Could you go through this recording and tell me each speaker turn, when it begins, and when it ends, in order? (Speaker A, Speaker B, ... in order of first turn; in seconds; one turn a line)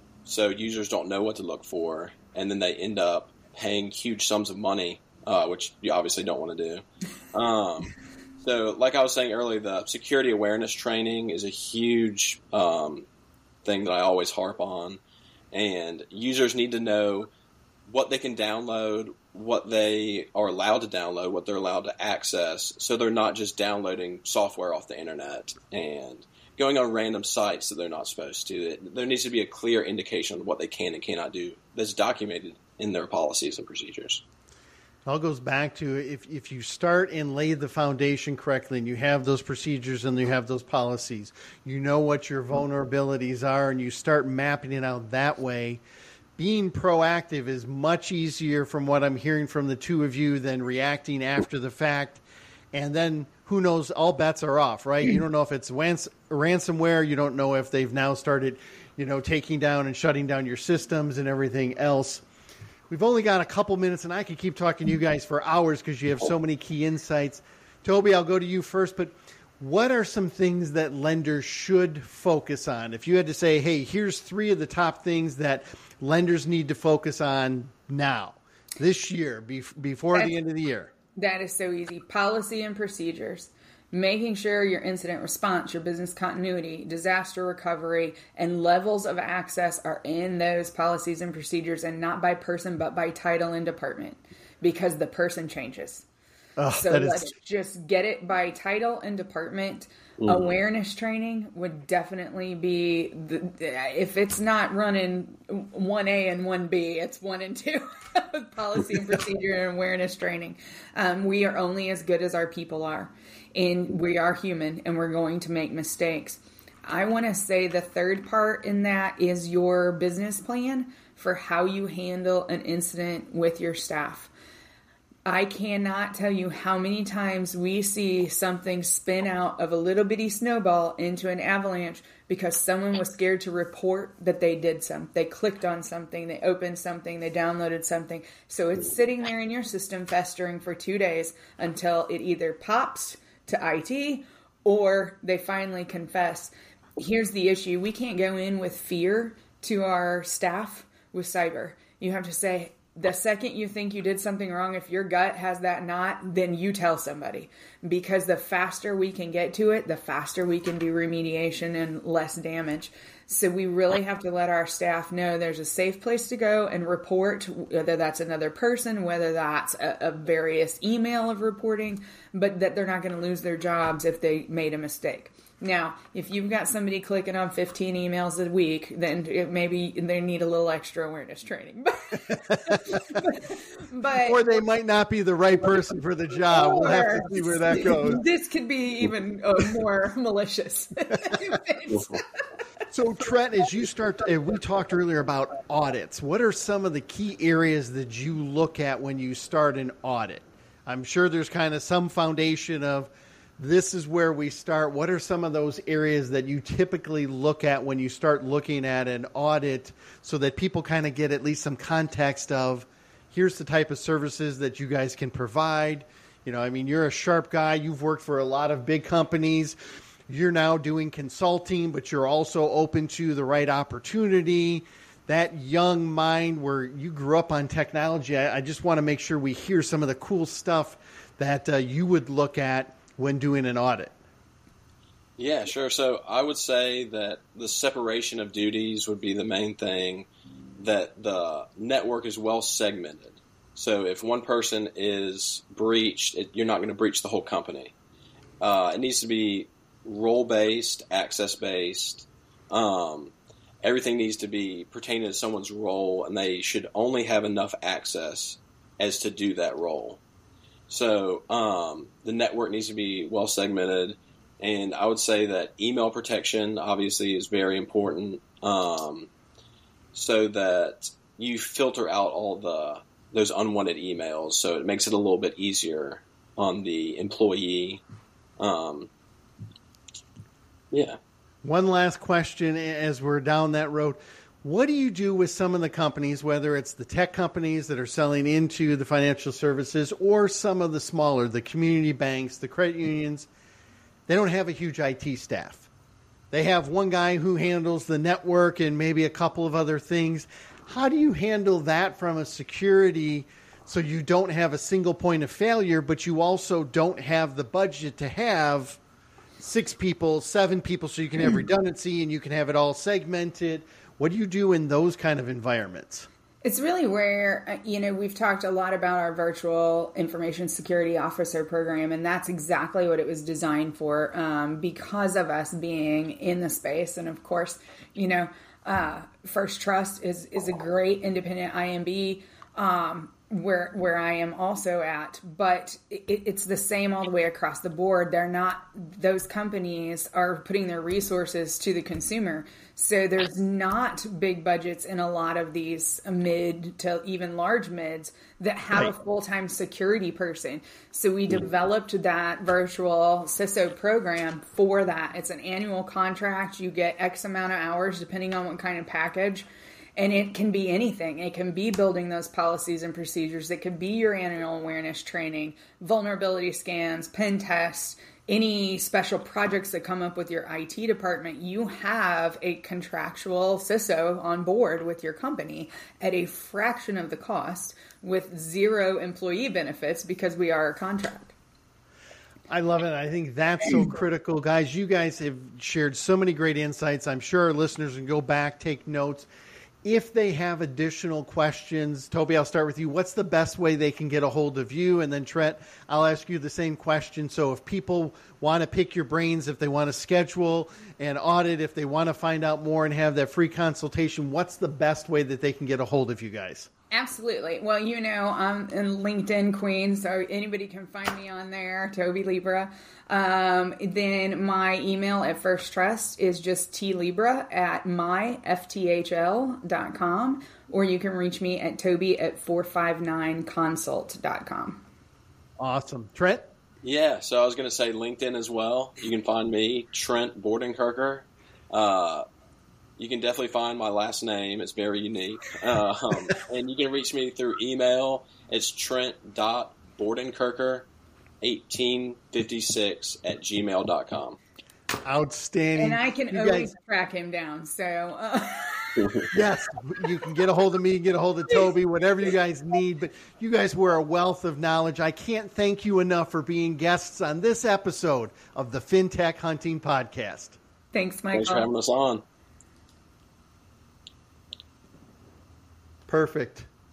Speaker A: 0.3-13.1
Speaker A: 13.6-15.0
Speaker A: 15.5-17.3
Speaker A: 17.9-34.2
Speaker B: 35.1-45.8
Speaker B: 46.4-62.2
Speaker B: 62.9-80.9
Speaker C: 81.2-96.1
Speaker B: 96.6-97.3
Speaker C: 96.7-124.3
Speaker A: 100.2-100.5
Speaker C: 125.3-184.4
Speaker B: 182.7-183.2
Speaker B: 184.2-188.2
Speaker C: 186.5-192.4
Speaker B: 192.9-219.8
Speaker B: 220.3-234.1
Speaker A: 235.4-240.3
Speaker A: 240.8-247.9
Speaker A: 248.6-260.2
Speaker A: 260.9-269.3
Speaker A: 270.1-278.0
Speaker A: 278.6-279.1
Speaker A: 280.9-281.2
Speaker B: 281.6-293.5
Speaker B: 294.3-295.9
Speaker B: 296.5-309.0
Speaker B: 309.6-316.3
Speaker C: 316.6-381.6
Speaker B: 382.7-389.5
Speaker B: 390.0-406.9
Speaker C: 407.1-425.0
Speaker B: 425.8-426.6
Speaker A: 427.0-432.4
Speaker A: 433.2-441.1
Speaker A: 441.6-444.6
Speaker B: 445.2-446.9
Speaker C: 446.0-449.5
Speaker B: 449.5-460.8
Speaker C: 461.1-461.9
Speaker A: 461.5-462.4
Speaker B: 466.3-466.9